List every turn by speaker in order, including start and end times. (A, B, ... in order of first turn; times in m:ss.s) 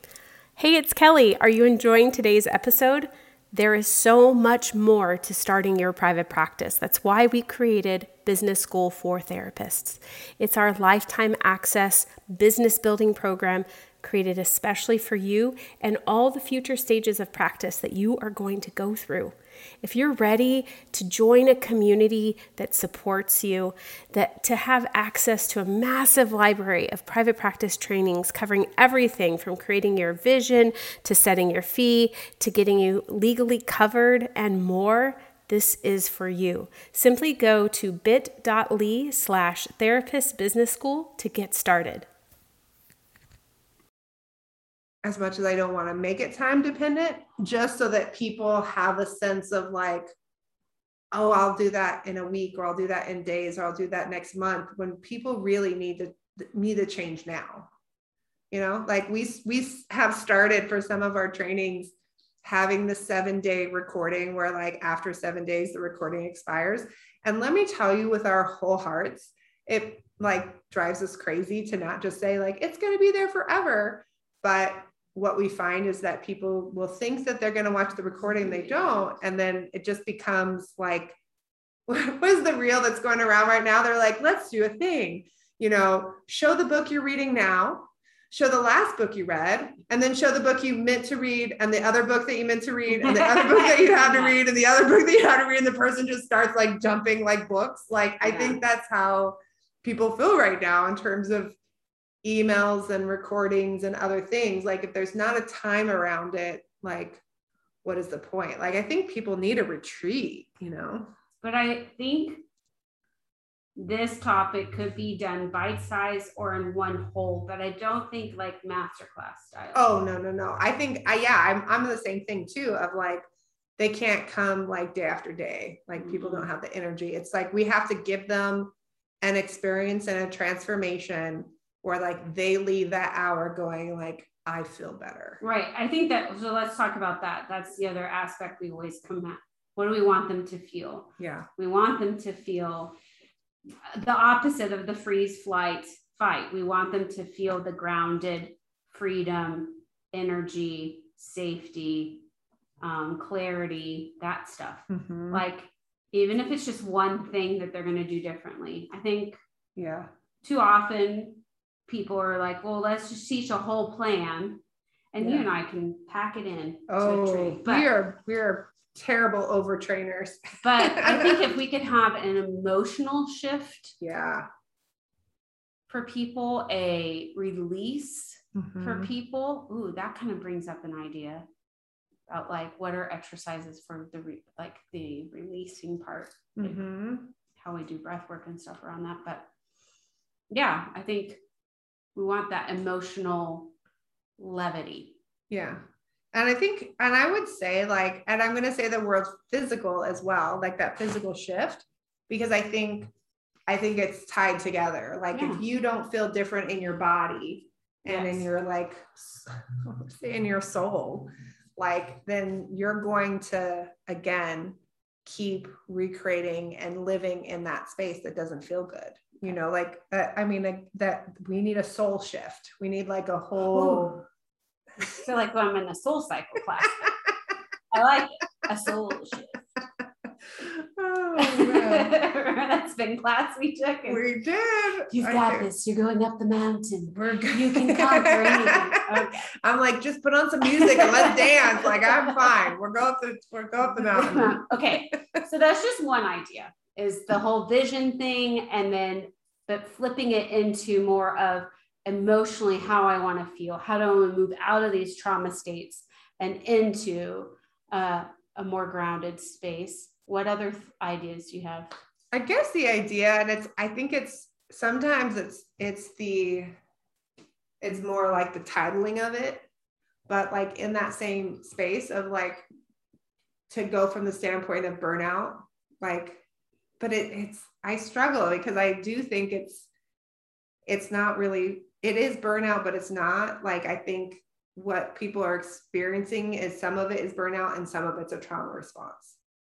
0:00.6-0:42.1 A
0:45.0-0:50.1 B
0:51.1-0:57.7 B
0:58.5-1:01.9 B
1:02.4-1:21.2 B
1:18.2-1:19.1 C
1:21.9-1:41.6 B
1:32.9-1:34.4 C
1:38.2-1:38.6 C
1:42.2-1:47.2 B
1:47.8-1:51.1 B
1:51.4-1:52.4 C
1:53.8-1:59.9 C
1:59.7-2:03.2 B
2:03.8-2:15.4 B
2:06.0-2:06.5 C
2:15.4-2:23.0 C
2:21.2-2:21.5 B
2:23.9-2:32.2 C
2:32.8-2:39.4 C
2:34.9-2:35.4 B
2:39.8-2:40.1 B
2:40.4-2:44.6 C
2:45.1-2:47.9 C
2:45.2-2:45.5 B
2:46.9-2:51.4 B
2:50.6-2:54.0 C
2:54.0-2:54.5 B
2:55.9-3:01.5 C
2:58.6-2:59.1 B
3:02.3-3:06.8 C
3:06.6-3:07.3 B
3:07.6-3:09.5 C
3:10.5-3:11.4 C
3:12.2-3:13.7 C
3:14.4-3:15.2 C
3:15.5-3:15.8 B
3:16.3-3:23.1 B
3:23.7-3:44.2 B
3:25.3-3:25.6 C
3:28.1-3:28.5 C
3:43.7-3:44.2 C
3:45.1-3:47.1 C
3:47.9-3:49.7 C
3:50.6-3:52.2 B
3:51.4-3:54.2 C
3:54.1-3:55.7 B
3:55.1-3:59.5 C
3:57.1-4:05.4 B
4:00.6-4:02.6 C
4:03.9-4:21.9 C
4:22.3-4:26.7 B
4:27.8-4:29.6 B
4:30.3-4:32.6 B
4:33.7-4:36.4 B
4:37.0-4:39.9 B
4:40.9-4:49.4 B